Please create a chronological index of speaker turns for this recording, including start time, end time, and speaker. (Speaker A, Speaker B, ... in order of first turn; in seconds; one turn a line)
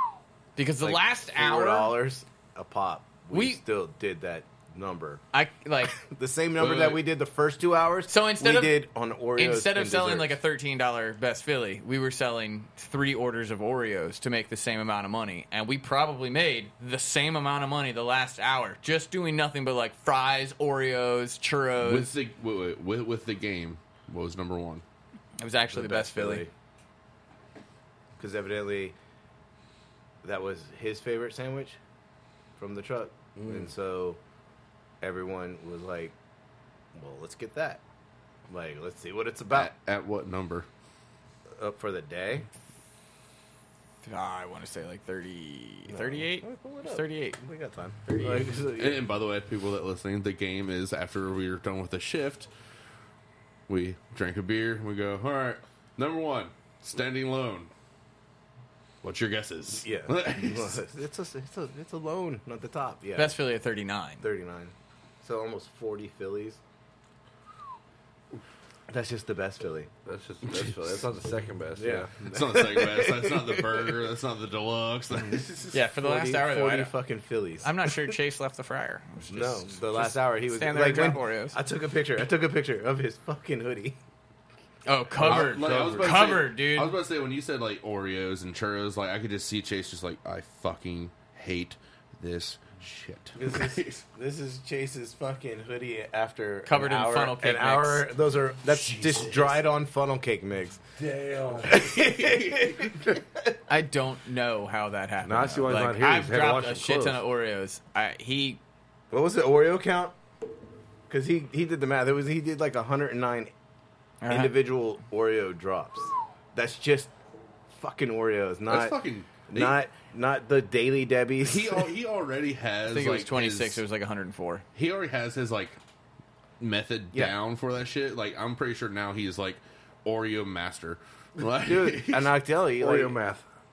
Speaker A: 0.6-1.9
Speaker B: 0.8-5.2
Speaker A: 3.3-3.6
Speaker A: 5.3-6.0
Speaker B: 6.0-10.4
Speaker C: 6.6-7.0
Speaker A: 8.1-22.1
Speaker C: 21.8-24.8
Speaker A: 25.4-26.4
Speaker B: 25.7-26.5
Speaker B: 28.2-28.9
Speaker B: 30.2-31.8
Speaker B: 32.6-34.2
Speaker D: 33.4-33.7
Speaker B: 35.0-36.1
Speaker B: 36.9-37.8
Speaker B: 38.5-39.7
Speaker C: 39.5-40.7
Speaker B: 41.6-42.5
Speaker A: 44.0-47.4
Speaker B: 45.9-49.1
Speaker A: 48.1-48.5
Speaker C: 48.8-52.5
Speaker C: 53.7-57.7
Speaker C: 59.0-60.8
Speaker B: 59.8-63.4
Speaker A: 63.1-64.2
Speaker B: 64.2-66.6
Speaker B: 68.9-69.9
Speaker D: 70.0-72.1
Speaker B: 71.8-74.0
Speaker C: 72.2-75.8
Speaker A: 75.7-76.9
Speaker B: 76.0-78.1
Speaker A: 77.6-81.6
Speaker B: 79.3-84.0
Speaker A: 84.8-86.9
Speaker C: 85.2-94.0
Speaker D: 85.3-86.0
Speaker B: 93.4-100.8
Speaker A: 96.6-98.1
Speaker C: 98.7-99.6
Speaker D: 101.0-101.9
Speaker B: 101.6-103.5
Speaker C: 102.0-102.7
Speaker A: 103.7-108.6
Speaker D: 105.2-107.2
Speaker B: 109.1-110.1
Speaker B: 111.1-113.5
Speaker A: 114.2-114.5
Speaker B: 114.3-117.1
Speaker B: 117.7-121.9
Speaker C: 118.7-119.8
Speaker C: 121.4-123.8
Speaker A: 122.9-124.6
Speaker C: 124.7-125.8
Speaker C: 126.6-132.3
Speaker B: 131.6-133.2
Speaker D: 132.8-133.4